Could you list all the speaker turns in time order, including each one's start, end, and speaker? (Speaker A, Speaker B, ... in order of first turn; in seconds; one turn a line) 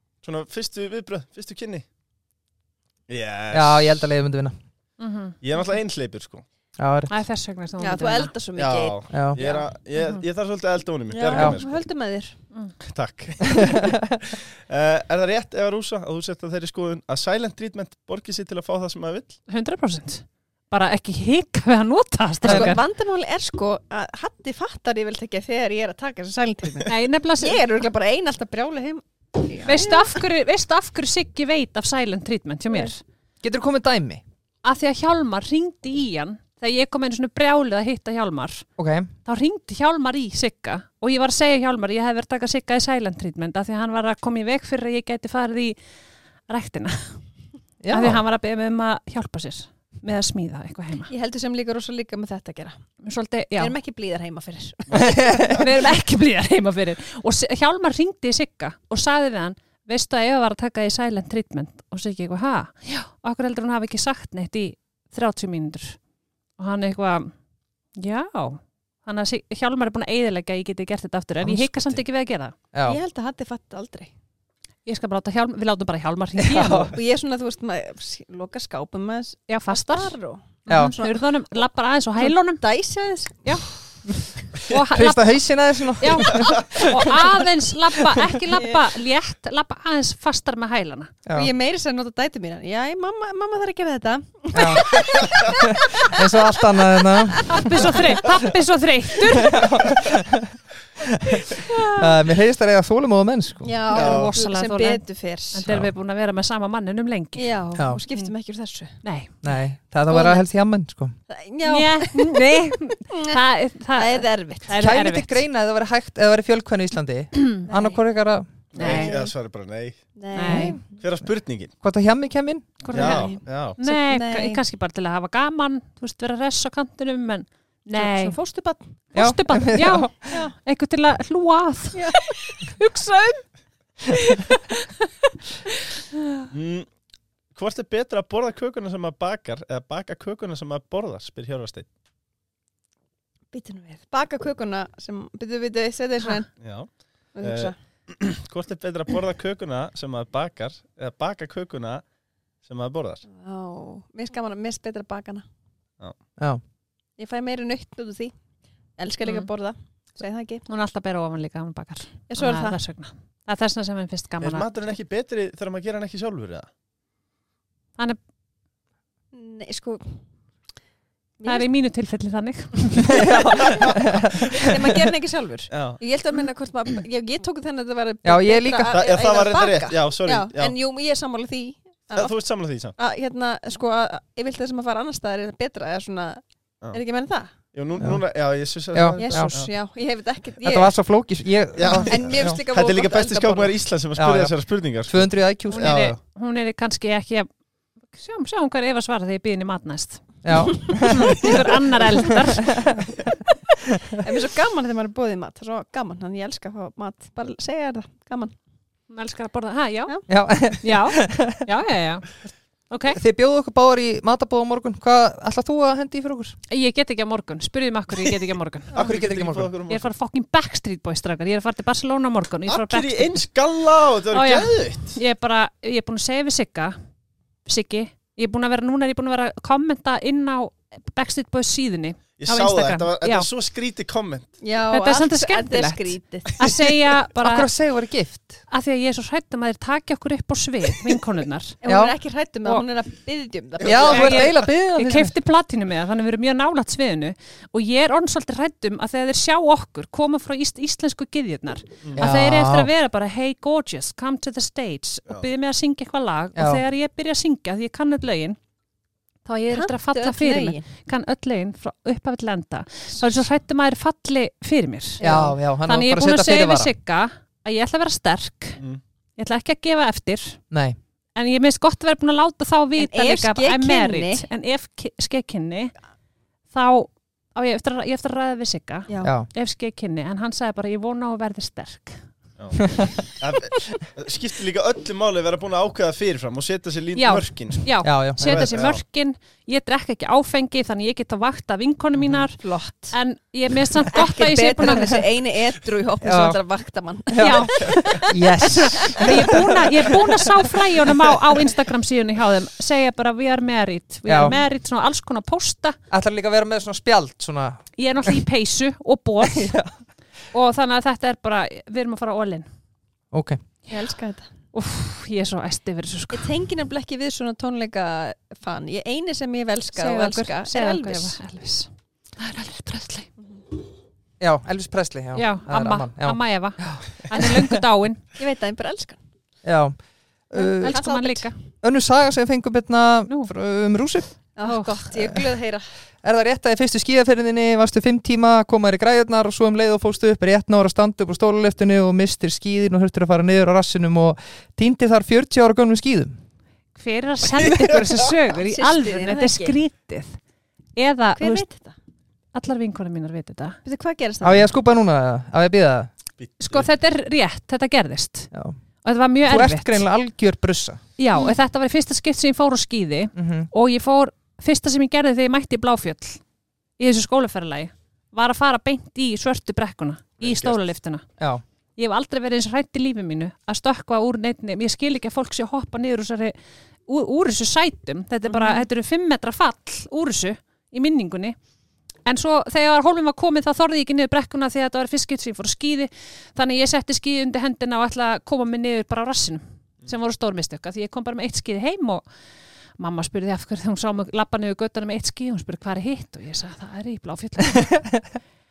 Speaker A: 0.2-1.8
Speaker A: 3.1-4.0
Speaker B: 3.5-4.5
Speaker C: 5.0-5.4
Speaker A: 5.4-6.4
Speaker B: 6.8-7.1
Speaker C: 7.1-8.3
Speaker D: 7.8-9.7
Speaker A: 8.6-11.8
Speaker B: 9.1-9.4
Speaker C: 10.0-10.2
Speaker D: 11.1-12.3
Speaker B: 11.3-11.6
Speaker A: 12.8-19.4
Speaker B: 13.5-14.0
Speaker C: 19.5-22.8
Speaker B: 22.4-22.8
Speaker D: 22.4-30.2
Speaker C: 26.9-27.6
Speaker C: 29.6-33.0
Speaker B: 33.4-34.2
Speaker C: 34.6-38.6
Speaker B: 38.8-39.1
Speaker C: 39.2-45.8
Speaker C: 46.5-47.2
Speaker B: 47.8-48.2
Speaker C: 47.9-51.1
Speaker D: 51.1-52.8
Speaker C: 53.0-53.7
Speaker D: 53.5-55.6
Speaker B: 54.9-55.7
Speaker C: 55.4-66.0
Speaker C: 66.6-67.3
Speaker C: 68.0-72.5
Speaker B: 71.4-72.0
Speaker B: 72.7-73.0
Speaker D: 72.8-74.1
Speaker C: 74.8-77.0
Speaker B: 76.4-76.9
Speaker D: 76.9-81.6
Speaker C: 79.5-82.6
Speaker B: 80.7-81.0
Speaker D: 82.2-83.4
Speaker C: 84.5-85.4
Speaker B: 84.7-87.2
Speaker C: 86.0-91.1
Speaker D: 88.5-88.8
Speaker D: 91.3-98.1
Speaker B: 94.5-98.0
Speaker C: 97.5-99.7
Speaker B: 99.4-103.8
Speaker D: 101.6-102.1
Speaker D: 103.6-105.7
Speaker C: 103.9-107.5
Speaker A: 103.9-104.3
Speaker D: 107.3-109.0
Speaker B: 107.8-108.0
Speaker C: 109.0-109.3
Speaker B: 109.4-111.1
Speaker D: 110.1-110.4
Speaker D: 111.3-113.4
Speaker C: 111.6-115.4
Speaker D: 114.0-114.8
Speaker B: 114.8-118.5
Speaker D: 117.6-118.0
Speaker A: 118.7-120.0
Speaker C: 118.8-119.1
Speaker D: 118.8-119.3
Speaker D: 120.2-120.8
Speaker C: 120.3-120.8
Speaker B: 120.5-120.8
Speaker A: 120.9-121.7
Speaker B: 121.8-122.8
Speaker C: 122.8-128.4
Speaker A: 122.9-123.8
Speaker D: 122.9-124.6
Speaker D: 127.9-128.9
Speaker C: 129.1-133.4
Speaker B: 129.1-130.3
Speaker D: 130.3-130.5
Speaker D: 131.9-132.5
Speaker C: 134.1-135.0
Speaker A: 136.5-136.9
Speaker A: 137.5-141.9
Speaker D: 143.5-146.5
Speaker A: 146.6-152.0
Speaker D: 147.3-147.7
Speaker A: 152.6-153.2
Speaker D: 153.3-155.4
Speaker D: 157.2-158.3
Speaker D: 159.0-160.6
Speaker C: 160.7-164.7
Speaker D: 162.3-162.8
Speaker A: 164.4-166.7
Speaker D: 169.3-170.2
Speaker D: 171.4-171.7
Speaker C: 171.4-173.3
Speaker B: 173.1-174.9
Speaker D: 173.2-173.8
Speaker D: 174.5-182.3
Speaker A: 175.7-176.0
Speaker B: 178.2-178.9
Speaker A: 178.9-180.7
Speaker A: 182.1-182.9
Speaker D: 182.9-187.5
Speaker A: 187.7-189.7
Speaker B: 188.0-188.2
Speaker B: 188.9-189.6
Speaker D: 189.2-190.9
Speaker B: 190.6-192.6
Speaker A: 191.8-196.2
Speaker D: 191.9-193.8
Speaker B: 194.2-194.5
Speaker B: 195.1-196.1
Speaker C: 195.7-197.5
Speaker C: 198.1-203.0
Speaker B: 200.4-201.6
Speaker D: 200.9-201.5
Speaker B: 202.3-203.3
Speaker D: 204.2-208.5
Speaker C: 209.1-210.1
Speaker B: 210.3-211.6
Speaker C: 210.8-213.2
Speaker B: 213.1-216.6
Speaker C: 216.7-219.0
Speaker A: 218.9-220.1
Speaker B: 218.9-219.7
Speaker C: 219.9-223.4
Speaker A: 222.7-225.2
Speaker C: 224.3-226.9
Speaker C: 227.7-233.5
Speaker A: 232.4-234.5
Speaker D: 234.6-236.6
Speaker C: 234.9-237.7
Speaker B: 237.3-238.6
Speaker C: 238.7-241.8
Speaker D: 241.8-244.3
Speaker B: 241.8-242.1
Speaker B: 243.8-245.3
Speaker A: 243.8-244.5
Speaker C: 244.1-258.6
Speaker B: 252.2-252.9
Speaker B: 256.6-256.8
Speaker C: 259.4-265.3
Speaker D: 259.7-260.9
Speaker D: 265.2-265.6
Speaker B: 265.2-266.9
Speaker C: 265.8-268.8
Speaker C: 269.4-270.6
Speaker B: 270.7-271.0
Speaker C: 271.4-275.9
Speaker D: 273.0-274.4
Speaker C: 276.7-282.2
Speaker D: 279.1-279.3
Speaker B: 279.2-279.5
Speaker B: 282.8-283.1
Speaker A: 283.4-289.0
Speaker C: 287.1-295.2
Speaker B: 288.0-288.7
Speaker D: 292.6-293.2
Speaker D: 294.1-298.3
Speaker B: 296.2-296.6
Speaker B: 297.3-299.6
Speaker C: 297.4-306.0
Speaker D: 299.0-299.5
Speaker B: 300.1-300.5
Speaker B: 304.2-304.6
Speaker B: 306.1-308.4
Speaker C: 308.0-309.8
Speaker B: 309.4-309.9
Speaker C: 310.5-312.6
Speaker B: 313.3-313.6
Speaker D: 313.9-314.5
Speaker C: 314.7-316.5
Speaker D: 316.3-321.4
Speaker C: 319.9-323.3
Speaker B: 324.4-327.8
Speaker C: 325.3-328.2
Speaker D: 328.4-329.2
Speaker B: 329.6-330.0
Speaker B: 330.5-331.0
Speaker C: 330.8-331.5
Speaker D: 330.8-331.5
Speaker B: 331.8-334.3
Speaker D: 334.6-335.8
Speaker C: 334.6-334.9
Speaker B: 336.2-346.3
Speaker C: 346.9-350.4
Speaker D: 348.6-349.8
Speaker C: 350.9-351.6
Speaker D: 351.4-351.9
Speaker C: 352.5-353.8
Speaker D: 353.8-354.7
Speaker B: 354.4-356.1
Speaker A: 356.4-356.9
Speaker C: 356.6-358.5
Speaker C: 359.0-360.0
Speaker B: 359.4-361.0
Speaker C: 361.2-366.4
Speaker B: 363.4-363.7
Speaker C: 367.0-371.2
Speaker A: 370.4-370.8
Speaker B: 371.4-371.6
Speaker C: 372.0-376.5
Speaker C: 377.1-381.6
Speaker D: 378.5-378.9
Speaker C: 382.2-392.2
Speaker C: 393.0-398.1